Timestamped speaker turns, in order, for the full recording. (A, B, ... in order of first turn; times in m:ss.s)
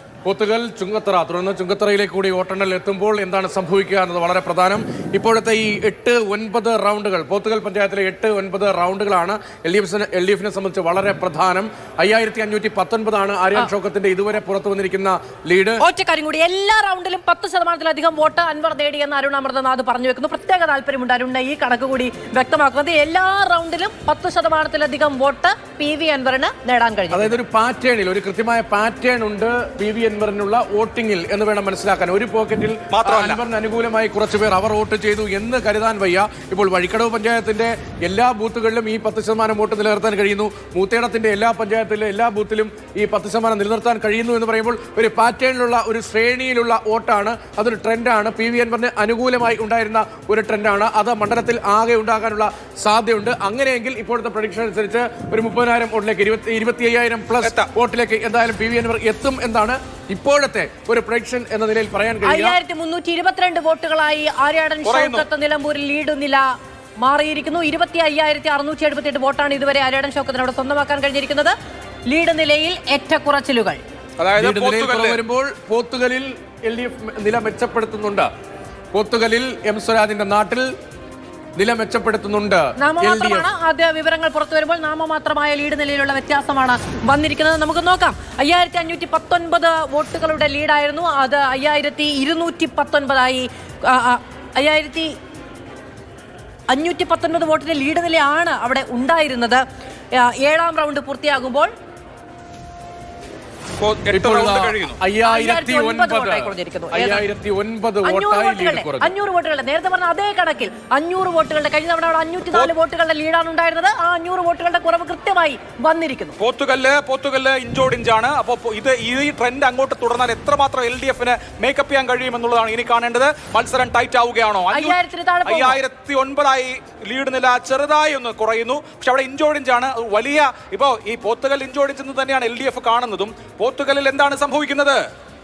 0:00.2-0:15.8 A
0:15.8-0:27.4 B
0:27.1-1:02.6 A
0:32.9-0:33.4 C
0:57.4-0:57.7 C
1:02.2-1:06.4 B
1:04.8-1:05.2 C
1:07.0-1:11.6 B
1:12.1-1:13.8 B
1:14.2-1:15.2 C
1:14.4-1:18.3 A
1:18.9-1:20.7 A
1:21.6-1:23.5 A
1:22.8-1:35.1 B
1:36.7-1:39.6 B
1:40.1-1:41.7 B
1:43.8-1:45.0 C
1:44.1-1:49.1 A
1:45.2-1:47.2 B
1:48.0-1:56.4 B
1:56.4-2:15.0 C
2:04.7-2:05.8 B